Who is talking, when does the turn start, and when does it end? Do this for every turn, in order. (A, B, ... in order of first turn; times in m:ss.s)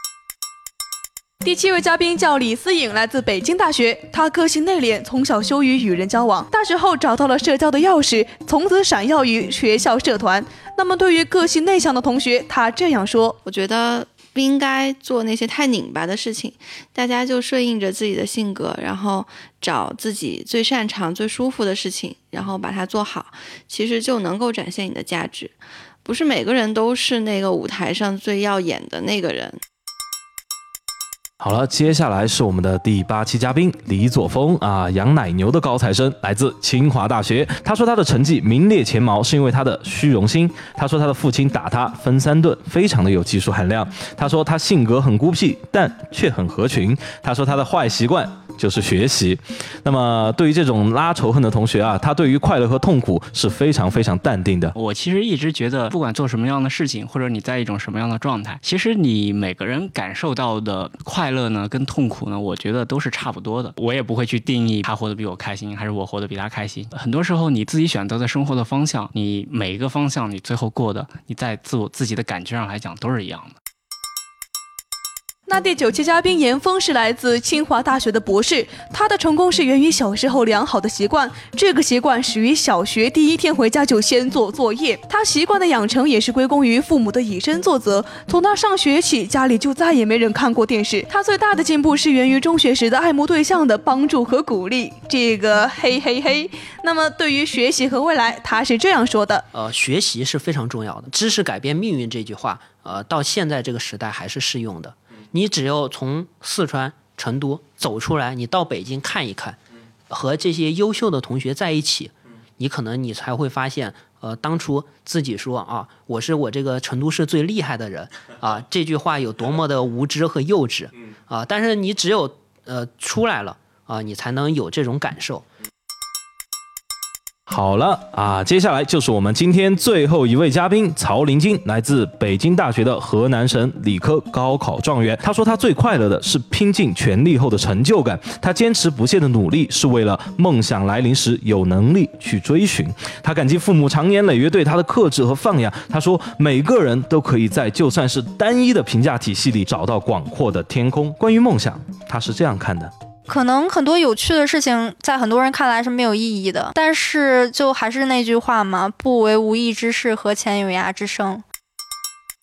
0:01.4-0:13.4 A
0:13.4-0:29.6 B
0:31.4-0:54.8 C
0:54.8-1:13.6 D
1:15.4-1:39.4 A
1:39.5-1:49.6 E
1:50.1-2:05.4 E
2:07.5-2:32.9 C
2:33.3-2:41.4 F